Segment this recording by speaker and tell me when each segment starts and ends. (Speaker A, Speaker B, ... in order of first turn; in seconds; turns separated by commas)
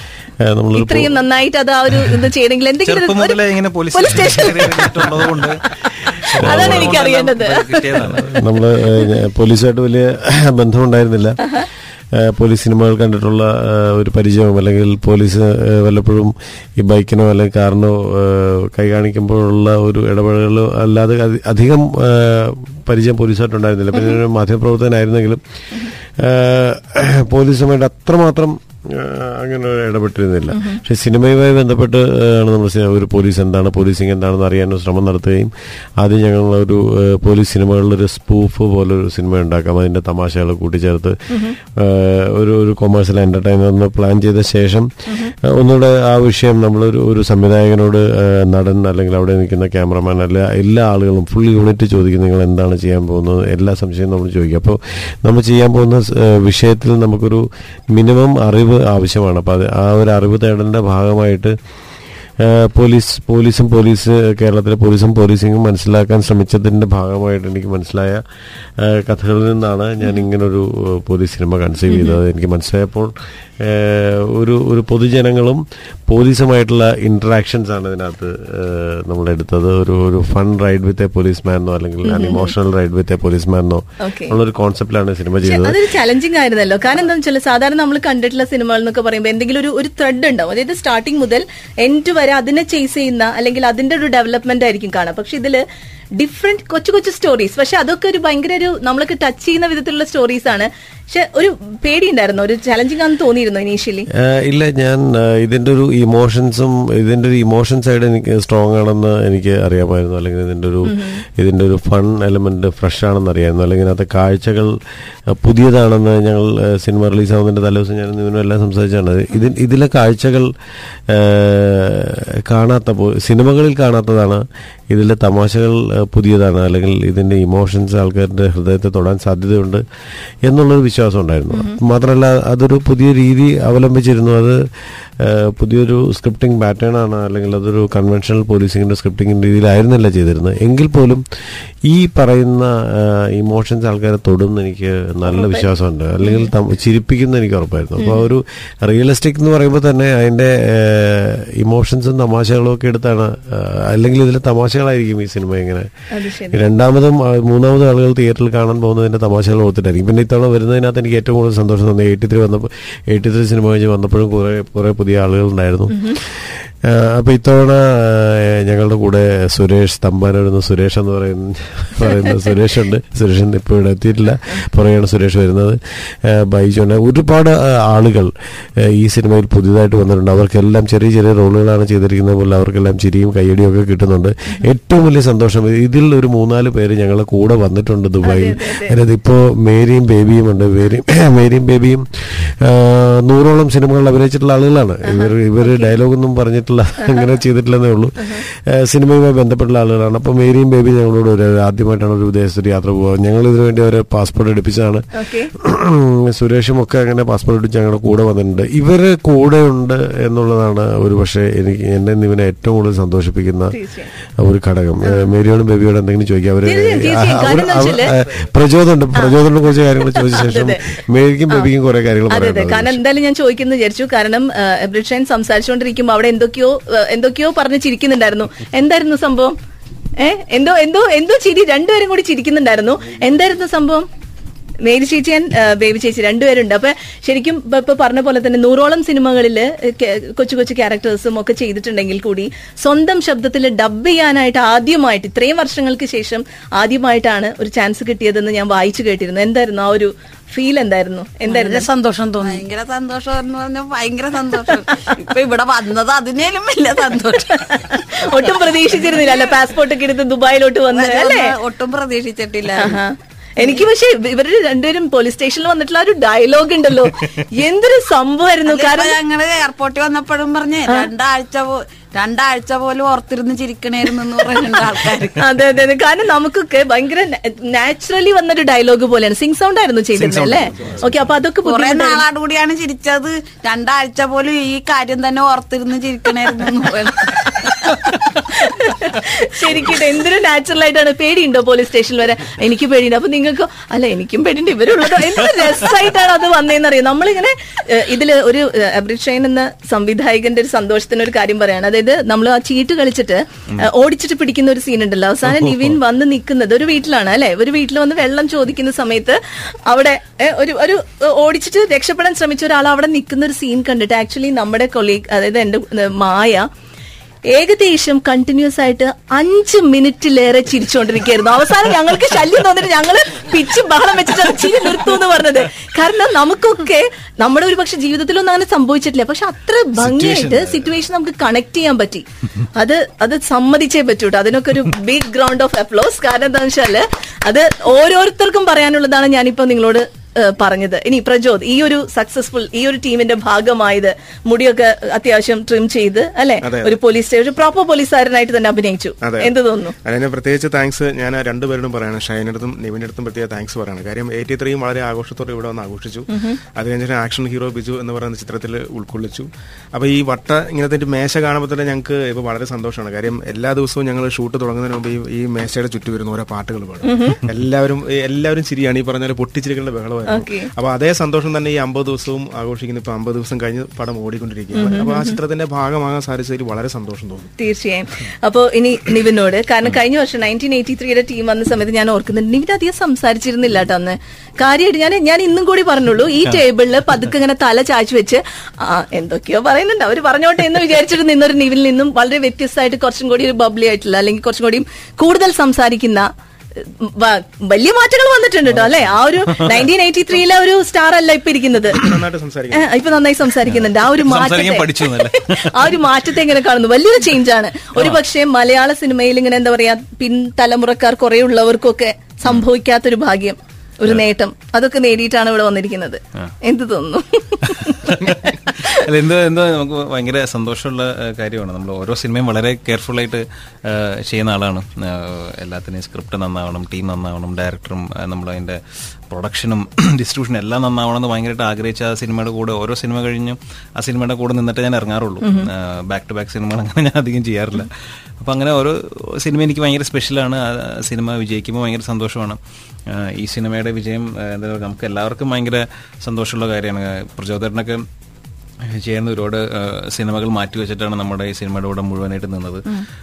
Speaker A: 0.4-1.2, Speaker B: 0.8-3.4, Speaker C: 2.9-8.4, Speaker B: 3.9-5.3, Speaker B: 6.4-8.0, Speaker A: 6.4-7.0, Speaker A: 8.1-11.4, Speaker A: 12.2-44.9, Speaker B: 30.6-30.8, Speaker B: 41.3-41.6, Speaker B: 45.1-45.3, Speaker A: 45.4-61.6, Speaker A: 62.4-68.2, Speaker A: 68.8-85.8, Speaker B: 71.9-72.2, Speaker B: 82.0-82.5, Speaker B: 84.0-84.3, Speaker B: 85.4-95.6, Speaker B: 96.2-104.1, Speaker A: 104.1-114.8, Speaker B: 110.9-111.2, Speaker A: 115.3-120.5, Speaker A: 121.1-129.8, Speaker A: 130.4-134.6, Speaker A: 135.2-141.2, Speaker A: 141.9-155.9, Speaker B: 146.2-146.5, Speaker B: 148.0-148.3, Speaker B: 156.1-156.7, Speaker A: 156.5-213.8, Speaker B: 165.9-166.2, Speaker B: 188.2-188.9, Speaker B: 195.1-195.9, Speaker B: 205.2-205.5, Speaker B: 213.7-214.1, Speaker A: 214.4-223.0, Speaker B: 216.6-218.1, Speaker B: 220.0-220.8, Speaker B: 222.3-229.6, Speaker B: 230.2-234.1, Speaker B: 234.8-251.9, Speaker D: 251.5-259.6, Speaker B: 257.7-261.5, Speaker D: 260.9-263.0, Speaker B: 262.8-269.2, Speaker D: 263.6-263.9, Speaker D: 268.7-275.4, Speaker B: 275.4-282.2, Speaker C: 280.1-280.9, Speaker D: 281.6-288.1, Speaker B: 286.6-316.7, Speaker B: 317.5-350.0, Speaker C: 330.0-330.9, Speaker E: 346.6-347.0, Speaker E: 349.2-377.5, Speaker B: 367.1-367.4, Speaker B: 370.3-370.7, Speaker B: 374.8-375.3, Speaker B: 377.6-396.3, Speaker B: 397.0-402.1, Speaker C: 398.7-399.8, Speaker E: 401.9-402.9, Speaker B: 402.7-419.0, Speaker C: 403.7-406.1, Speaker C: 417.7-428.8, Speaker C: 429.3-448.1, Speaker B: 435.4-435.7, Speaker C: 448.9-452.9